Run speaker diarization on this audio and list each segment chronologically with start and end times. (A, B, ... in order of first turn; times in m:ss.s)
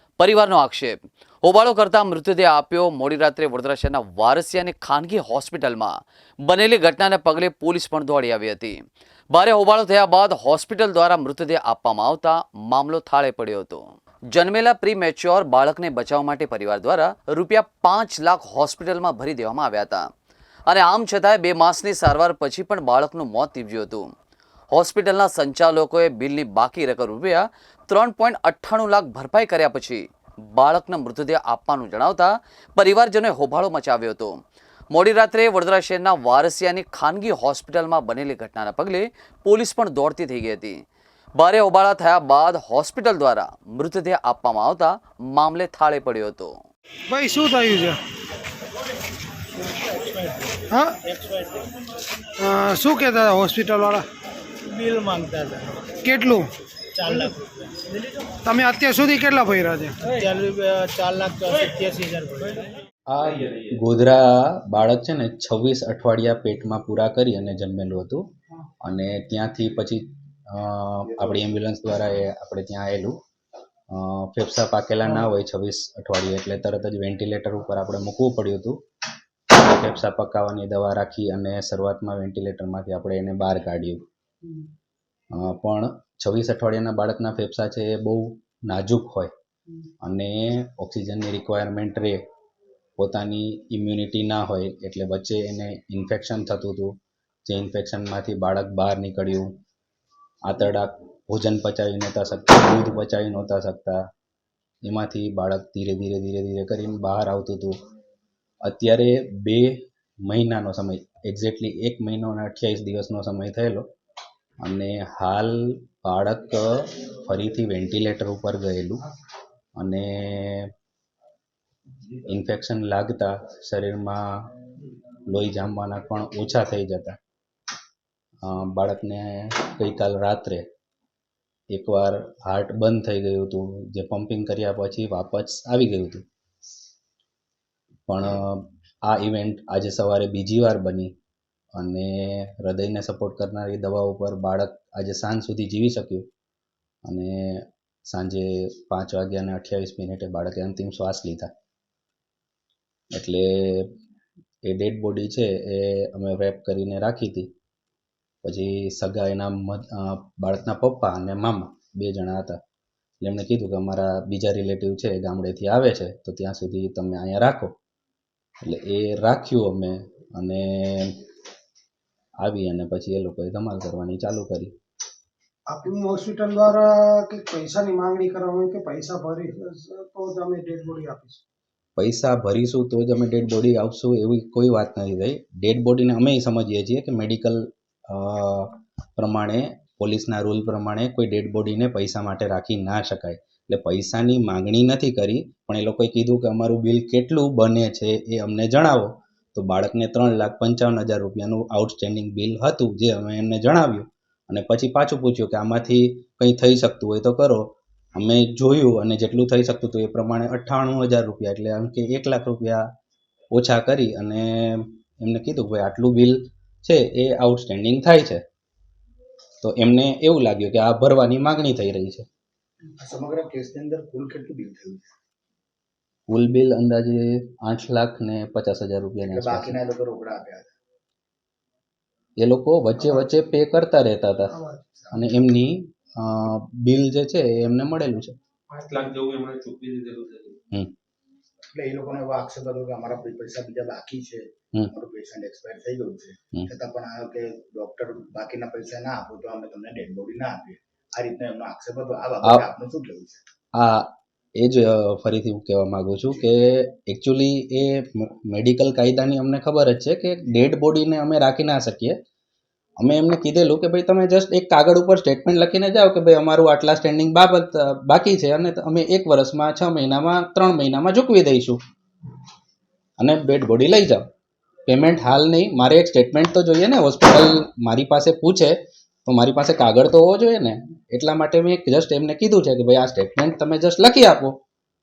0:00.2-0:05.9 A
0:06.4-0:08.8 A
0:09.3-0:20.1 A
0:20.7-0:24.1 A
0:24.7-0:34.4 A
0:34.9-0:40.8 A
0:41.4-0:46.5 A
0:47.1-0:48.0 B
0:49.8-0:51.6 C
0:50.7-0:51.0 B
0:52.4-0:54.0 B
0:54.7-0:55.9 C
0:56.0-0:56.5 B
0:56.9-0:57.7 C
0:58.4-1:00.0 B
1:00.1-1:02.6 C
1:03.1-1:08.2 D
1:03.2-1:03.8 E
1:08.8-1:13.1 D
1:13.9-1:18.8 D
1:19.5-1:24.0 D
1:25.3-1:29.3 D
1:30.0-1:32.2 D
1:33.0-1:36.9 D
1:37.5-1:39.6 D
1:40.4-1:44.0 D
1:44.8-1:47.8 D
1:48.6-1:53.9 D
1:54.6-1:59.1 D
1:59.8-2:00.7 D
2:02.2-2:04.5 D
2:05.2-2:07.2 D
2:08.4-2:10.7 D
2:11.7-2:16.2 D
2:18.1-2:21.1 D
2:21.8-2:26.3 D
2:27.1-2:31.5 D
2:33.1-2:33.9 D
2:34.6-2:37.5 D
2:38.4-2:42.6 D
2:43.2-2:47.7 D
2:48.6-2:51.2 D
2:52.4-2:54.7 D
2:55.7-3:01.4 B
3:02.0-3:32.9 D
3:33.5-3:38.4 D
3:39.6-3:42.2 D
3:43.0-3:45.1 F
3:46.3-3:49.8 D
3:49.2-3:50.7 F
3:52.4-3:54.6 D
3:55.0-3:55.2 F
3:55.1-3:58.4 D
3:58.7-4:00.6 E
4:01.7-4:13.4 F
4:13.7-4:22.2 D
4:23.0-4:31.8 D
4:33.2-4:34.3 D
4:34.9-4:44.6 D